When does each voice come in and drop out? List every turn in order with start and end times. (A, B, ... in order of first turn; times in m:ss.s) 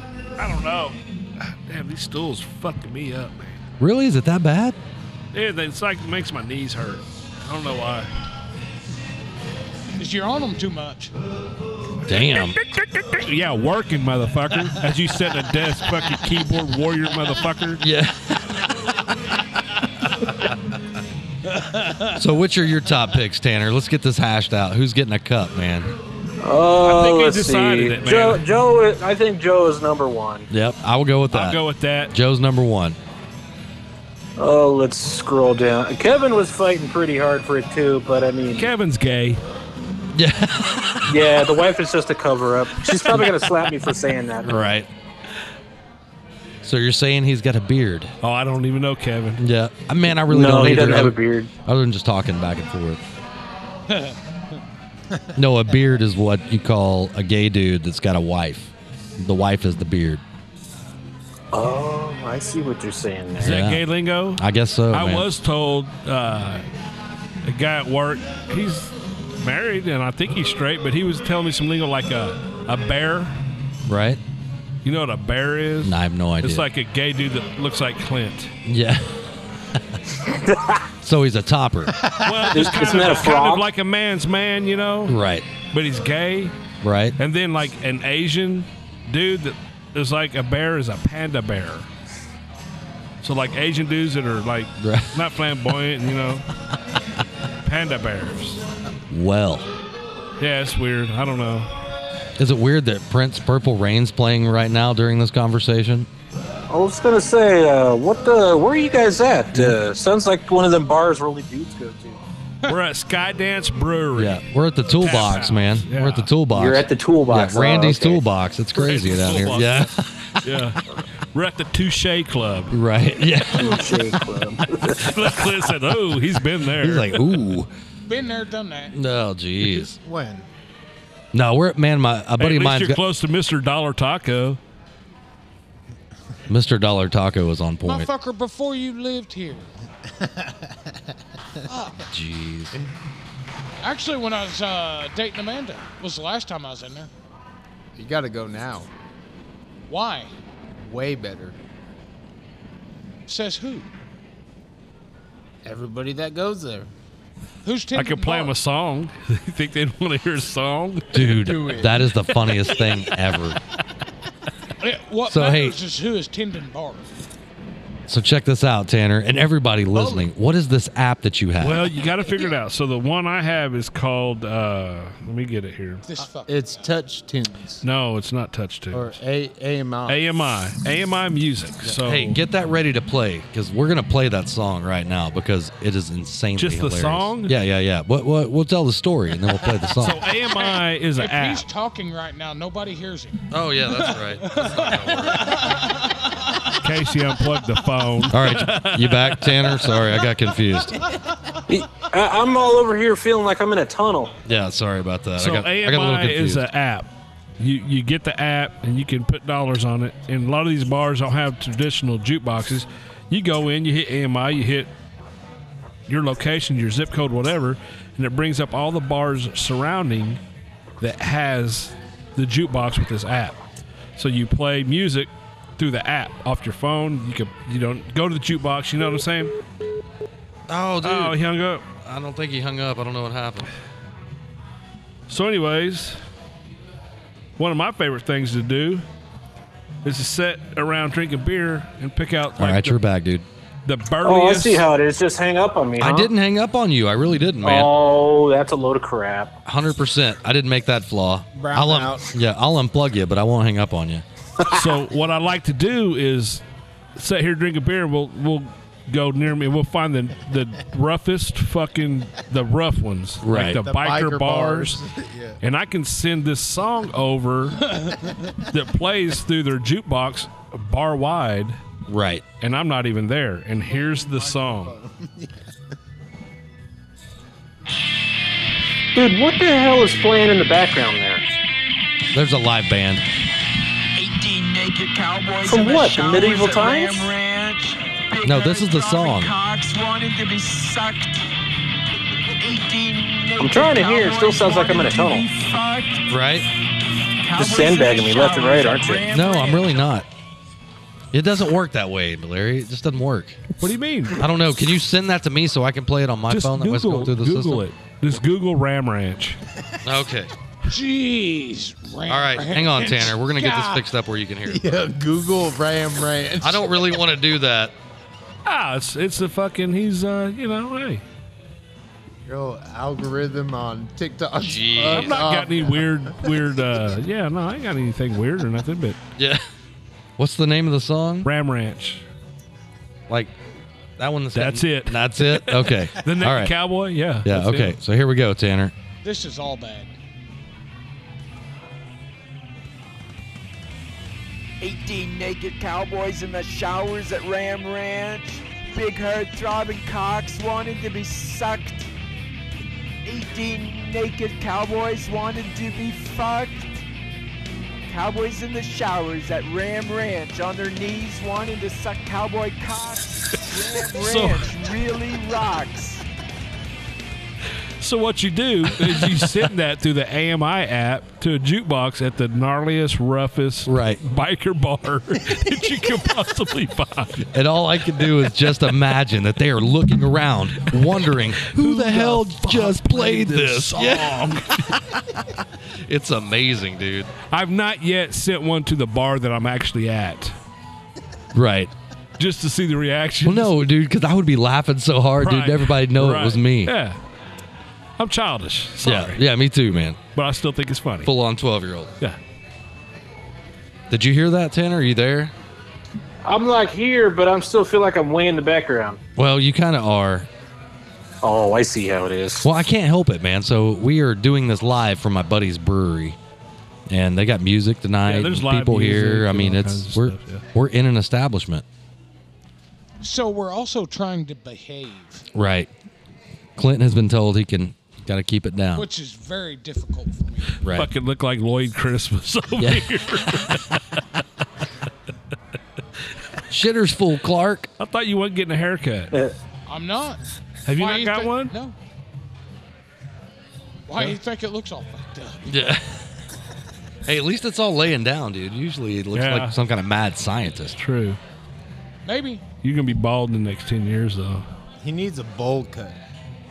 0:00.4-0:03.6 A
0:03.8-0:04.8 B
0:05.3-0:08.1 A
0:10.0-0:11.1 C
0:12.1-0:12.6 B
0:12.1-0:17.8 A
0:17.8-0:18.7 B
0:21.5-0:22.2 C
0:22.1-0:26.0 B
0:26.4-0:30.5 D
0:26.8-0:28.4 A
0:30.5-0:33.0 B
0:31.3-0:32.1 A
0:34.4-0:38.7 D
0:38.6-0:39.4 A
0:40.1-0:41.2 B
0:41.0-0:44.6 D
0:44.5-0:44.9 B
0:46.6-0:48.1 B
0:48.2-0:49.4 A
0:49.4-0:53.0 B
0:50.3-0:51.5 D
0:53.9-0:54.2 C
0:55.4-1:00.2 B
1:01.5-1:03.6 D
1:03.4-1:06.6 A
1:03.4-1:03.8 B
1:04.4-1:05.3 B
1:07.4-1:13.4 A
1:13.8-1:14.2 B
1:14.8-1:18.5 A
1:15.8-1:16.7 B
1:18.6-1:20.0 B
1:20.4-1:20.8 D
1:21.0-1:22.0 B
1:22.2-1:25.2 A
1:22.5-1:23.7 D
1:25.1-1:25.5 B
1:25.7-1:26.5 A
1:26.8-1:27.2 B
1:27.2-1:31.9 A
1:33.2-1:36.4 A
1:34.8-1:35.2 B
1:37.6-1:38.6 A
1:39.1-1:39.7 B
1:40.4-1:41.7 A
1:42.4-1:46.1 B
1:46.7-1:52.2 D
1:52.7-1:54.4 A
1:54.2-2:00.1 B
1:55.0-1:56.3 A
1:56.5-1:58.2 D
1:58.8-2:00.8 A
2:01.3-2:02.8 A
2:02.7-2:03.9 B
2:03.5-2:05.3 D
2:05.0-2:07.4 A
2:06.8-2:07.7 B
2:08.1-2:09.0 C
2:08.9-2:10.0 B
2:10.0-2:10.5 E
2:11.3-2:13.0 B
2:12.4-2:14.6 A
2:16.5-2:18.1 B
2:17.8-2:19.7 C
2:20.2-2:20.5 E
2:21.7-2:22.0 C
2:22.1-2:22.7 B
2:23.8-2:27.1 C
2:28.0-2:28.9 E
2:29.9-2:30.3 C
2:30.8-2:31.6 E
2:33.3-2:33.9 C
2:35.6-2:36.9 E
2:37.6-2:38.5 C
2:38.0-2:41.4 A
2:41.1-2:43.6 B
2:41.2-2:41.9 E
2:44.8-2:47.1 C
2:45.3-2:45.8 B
2:48.1-2:51.9 B
2:50.0-2:50.2 E
2:51.6-2:56.0 A
2:56.1-2:56.6 C
2:56.5-2:57.8 E
2:57.8-2:59.2 A
2:58.9-3:00.2 E
3:00.1-3:02.4 A
3:01.9-3:10.2 B
3:06.6-3:07.5 A
3:10.0-3:11.6 A
3:10.4-3:16.7 C
3:13.5-3:15.8 B
3:16.8-3:20.0 A
3:18.3-3:21.1 B
3:21.7-3:24.3 D
3:24.4-3:26.6 B
3:25.4-3:27.1 A
3:27.6-3:34.9 A
3:36.1-3:40.4 A
3:41.0-3:43.6 A
3:44.2-3:49.5 A
3:50.7-3:51.4 B
3:51.0-3:51.9 A
3:52.0-3:53.7 B
3:55.3-3:56.2 A
3:57.6-3:59.0 A
4:00.0-4:03.0 A
4:02.6-4:03.5 B
4:03.9-4:04.9 A
4:04.2-4:06.3 D
4:06.0-4:07.9 B
4:07.6-4:09.6 D
4:09.6-4:14.2 B
4:11.6-4:12.3 E
4:14.7-4:16.6 A
4:17.2-4:25.0 A
4:23.4-4:23.8 B
4:23.5-4:25.6 E
4:25.6-4:28.0 A
4:27.9-4:28.3 C
4:28.7-4:31.8 A
4:32.1-4:32.4 B
4:32.6-4:34.9 A
4:33.9-4:35.6 E
4:39.2-4:41.5 D
4:42.3-4:43.2 B
4:44.2-4:51.4 F
4:45.6-4:47.3 D
4:48.4-4:49.5 B
4:52.6-4:56.4 F
4:53.6-4:55.5 D
4:56.3-4:56.7 B
4:57.4-5:00.1 F
4:57.6-4:59.3 D
4:59.3-5:00.3 B
5:01.3-5:03.6 B
5:03.8-5:04.4 A
5:04.4-5:07.8 B
5:06.5-5:09.6 A
5:10.0-5:10.5 B
5:10.9-5:14.0 C
5:12.3-5:14.8 B
5:14.7-5:17.2 E
5:16.6-5:18.0 B
5:18.6-5:21.2 A
5:22.5-5:26.5 E
5:24.6-5:25.5 B
5:25.0-5:29.2 A
5:29.4-5:29.6 B
5:30.4-5:31.5 B
5:31.4-5:32.2 A
5:34.2-5:36.7 B
5:34.5-5:38.0 A
5:37.4-5:38.9 B
5:39.2-5:40.1 C
5:44.8-5:52.1 F
5:53.2-5:56.9 F
5:58.1-6:06.3 F
6:03.6-6:04.7 A
6:08.0-6:17.5 A
6:09.0-6:09.4 B
6:13.9-6:14.2 B
6:17.5-6:24.9 B
6:21.6-6:25.2 A
6:26.0-6:27.3 B
6:27.5-6:30.6 A
6:31.5-6:31.9 B
6:32.4-6:33.7 A
6:33.4-6:36.9 B
6:35.4-6:37.2 A
6:38.2-6:39.4 A
6:39.0-6:40.2 B
6:40.3-6:41.3 A
6:41.2-6:42.1 B
6:44.1-6:45.5 B
6:46.4-6:49.2 D
6:49.4-6:50.5 B
6:51.4-6:52.7 D
6:52.6-6:56.4 B
6:57.1-7:01.8 B
6:58.3-7:00.6 A
7:03.2-7:05.4 C
7:05.5-7:05.9 B
7:06.8-7:09.1 B
7:09.0-7:10.8 C
7:10.8-7:11.1 B
7:10.9-7:14.0 A
7:12.8-7:13.1 B
7:16.7-7:17.9 B
7:18.0-7:19.3 A
7:19.9-7:20.4 C
7:20.9-7:21.7 A
7:21.0-7:22.0 C
7:24.1-7:25.7 C
7:25.6-7:26.3 B
7:27.2-7:31.0 B
7:29.3-7:29.8 A
7:31.0-7:31.4 A
7:32.2-7:32.6 C
7:32.8-7:34.6 A
7:35.0-7:36.2 E